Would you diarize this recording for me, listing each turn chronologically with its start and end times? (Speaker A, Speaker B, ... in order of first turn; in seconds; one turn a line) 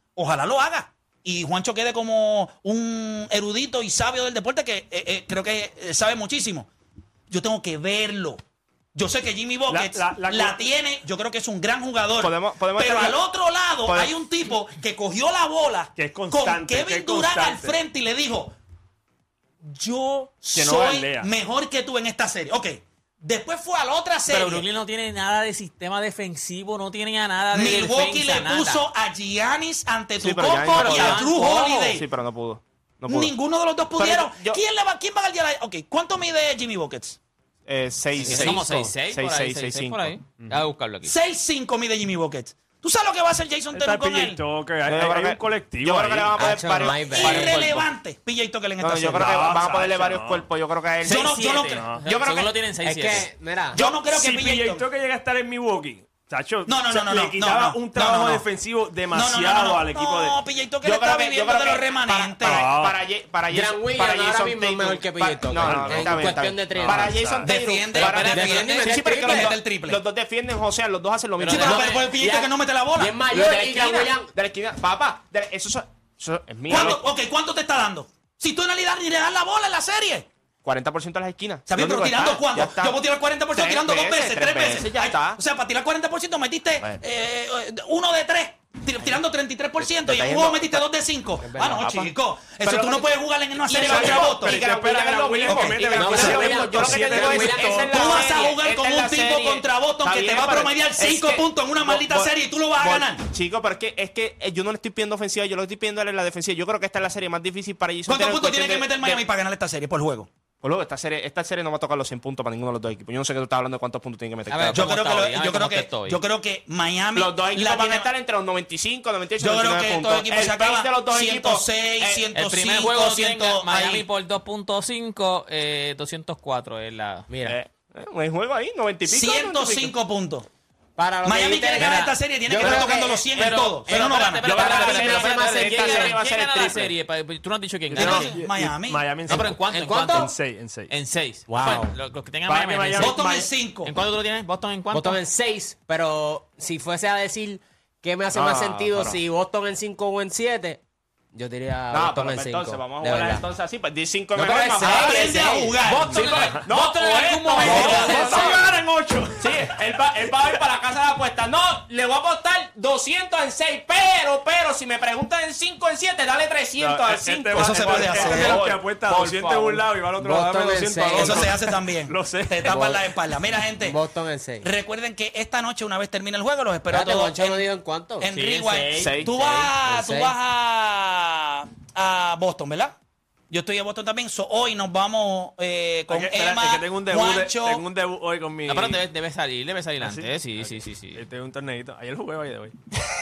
Speaker A: 0.1-6.7
Speaker A: 7.3-8.4
Speaker A: 8.9-18.5
Speaker B: 9.7-10.7
Speaker C: 12.2-13.2
Speaker C: 13.8-14.1
Speaker B: 15.9-17.8
Speaker A: 19.6-24.7
Speaker B: 20.5-21.3
Speaker D: 24.3-28.8
Speaker A: 27.5-32.0
Speaker C: 30.2-33.3
Speaker D: 30.6-32.0
Speaker A: 33.1-37.2
Speaker C: 33.9-34.6
Speaker C: 37.7-40.1
Speaker D: 38.2-41.1
Speaker E: 38.2-38.7
Speaker A: 41.0-44.4
Speaker B: 43.7-46.4
Speaker C: 44.9-47.8
Speaker E: 46.4-47.6
Speaker A: 46.9-49.6
Speaker D: 47.2-47.8
Speaker C: 48.8-52.5
Speaker B: 49.1-50.5
Speaker A: 51.0-51.8
Speaker D: 51.0-53.3
Speaker B: 51.6-52.0
Speaker E: 52.8-53.8
Speaker A: 53.7-54.9
Speaker B: 53.8-60.4
Speaker A: 56.7-58.5
Speaker A: 59.1-62.7
Speaker C: 60.8-71.9
Speaker B: 62.4-63.0
Speaker E: 63.5-67.3
Speaker B: 65.6-67.5
Speaker A: 67.4-70.0
Speaker D: 68.0-68.9
Speaker E: 68.3-69.5
Speaker D: 71.4-72.2
Speaker A: 71.5-73.2
Speaker E: 72.2-74.3
Speaker C: 73.3-77.0
Speaker A: 76.7-80.3
Speaker C: 80.6-83.0
Speaker A: 81.7-94.7
Speaker C: 83.5-85.4
Speaker C: 89.8-90.8
Speaker E: 91.4-91.8
Speaker C: 91.8-109.2
Speaker B: 93.7-98.2
Speaker A: 95.5-96.3
Speaker E: 95.5-97.8
Speaker A: 97.8-103.2
Speaker A: 108.1-110.3
Speaker C: 110.6-115.1
Speaker D: 114.5-116.2
Speaker A: 114.7-118.1
Speaker C: 117.1-122.2
Speaker A: 119.4-124.0
Speaker D: 122.3-127.3
Speaker E: 127.3-127.5
Speaker C: 127.5-129.9
Speaker A: 129.1-130.5
Speaker E: 131.0-133.3
Speaker A: 131.2-134.5
Speaker C: 132.6-136.9
Speaker E: 133.8-136.2
Speaker D: 133.8-138.3
Speaker E: 137.9-138.3
Speaker A: 137.9-139.1
Speaker B: 137.9-140.9
Speaker D: 139.2-140.3
Speaker E: 139.3-140.3
Speaker D: 140.9-145.2
Speaker E: 141.5-141.9
Speaker B: 142.4-143.5
Speaker A: 143.0-143.9
Speaker E: 144.9-150.8
Speaker C: 148.3-149.2
Speaker E: 151.3-153.4
Speaker C: 151.9-155.5
Speaker D: 154.4-158.7
Speaker A: 154.8-156.6
Speaker B: 156.4-156.7
Speaker C: 156.6-158.7
Speaker A: 157.6-158.4
Speaker B: 157.7-159.7
Speaker C: 159.4-169.6
Speaker B: 166.8-172.8
Speaker A: 167.5-168.6
Speaker E: 170.2-171.5
Speaker A: 171.1-174.0
Speaker E: 172.7-173.0
Speaker E: 173.8-174.7
Speaker A: 174.6-177.7
Speaker E: 176.9-178.3
Speaker A: 178.2-182.9
Speaker D: 178.3-179.1
Speaker C: 179.0-179.3
Speaker E: 179.3-180.3
Speaker A: 183.5-187.8
Speaker B: 186.1-189.0
Speaker D: 188.6-191.2
Speaker B: 190.0-192.7